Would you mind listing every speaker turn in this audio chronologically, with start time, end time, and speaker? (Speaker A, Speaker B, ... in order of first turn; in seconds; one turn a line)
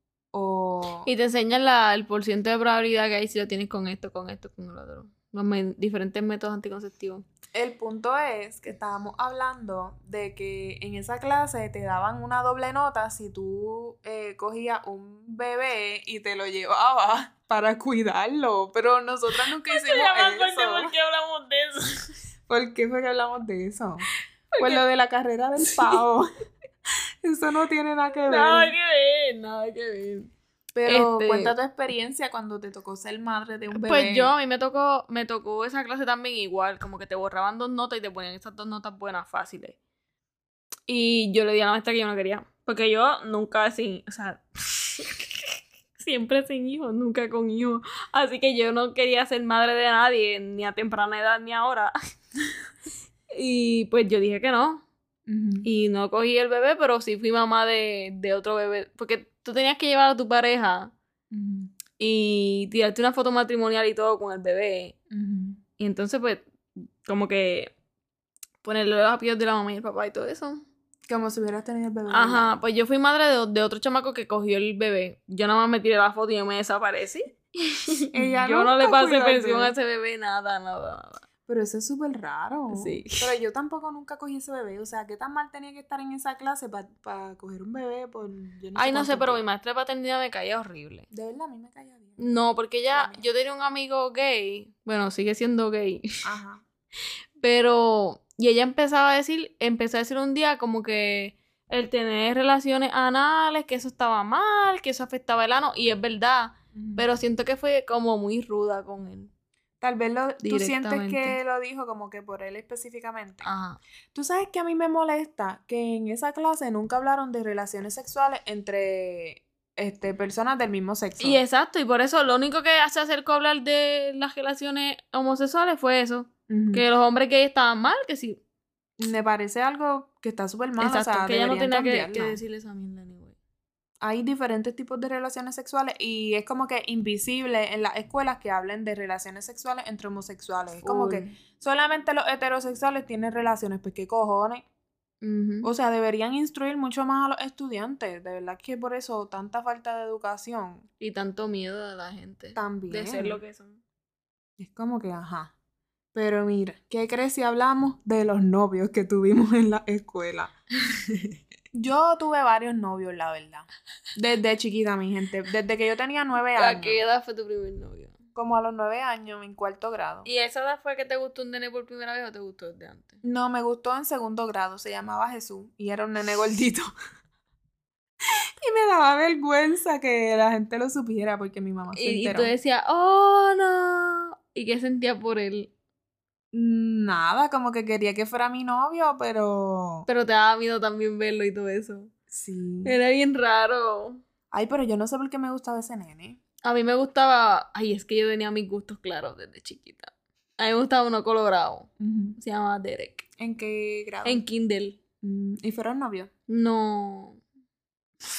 Speaker A: 0.3-1.1
Speaker B: 1.1-7.2
Speaker A: 7.5-20.9
Speaker B: 19.7-22.1
Speaker A: 22.5-24.1
Speaker B: 24.5-24.8
Speaker A: 24.6-26.3
Speaker B: 25.6-26.0
Speaker A: 27.2-28.7
Speaker B: 28.2-30.3
Speaker A: 30.7-34.3
Speaker B: 30.9-31.5
Speaker B: 33.7-39.8
Speaker B: 40.9-51.9
Speaker B: 53.3-54.8
Speaker A: 55.3-55.7
Speaker B: 55.6-60.9
Speaker A: 61.3-61.7
Speaker B: 62.0-65.0
Speaker A: 65.1-65.6
Speaker B: 65.8-67.7
Speaker B: 68.6-70.6
Speaker A: 71.1-72.5
Speaker B: 72.1-81.2
Speaker A: 78.1-79.7
Speaker A: 81.5-89.4
Speaker B: 82.7-83.3
Speaker B: 88.8-91.1
Speaker A: 91.1-92.2
Speaker B: 92.2-96.2
Speaker A: 92.9-93.2
Speaker A: 96.2-96.6
Speaker B: 97.4-109.3
Speaker A: 106.7-107.0
Speaker A: 109.8-113.5
Speaker B: 110.4-111.4
Speaker B: 113.4-113.8
Speaker A: 114.1-121.4
Speaker B: 121.2-128.4
Speaker A: 126.5-126.8
Speaker A: 129.0-132.4
Speaker B: 130.8-133.3
Speaker A: 134.0-144.6
Speaker B: 140.8-141.3
Speaker B: 145.2-145.7
Speaker A: 145.6-150.8
Speaker B: 151.0-153.8
Speaker A: 152.6-153.4
Speaker A: 154.6-155.5
Speaker A: 156.1-160.5
Speaker A: 161.7-167.0
Speaker B: 166.5-168.2
Speaker A: 168.3-170.3
Speaker B: 170.2-173.2
Speaker A: 173.2-176.9
Speaker A: 178.6-182.5
Speaker B: 181.9-185.7
Speaker A: 186.5-190.1
Speaker B: 190.1-192.1
Speaker A: 192.3-192.9
Speaker B: 192.8-194.2
Speaker A: 194.5-196.4
Speaker B: 196.6-203.3
Speaker A: 202.0-202.4
Speaker A: 203.4-204.4
Speaker B: 204.2-205.0
Speaker A: 205.2-206.3
Speaker B: 206.5-207.4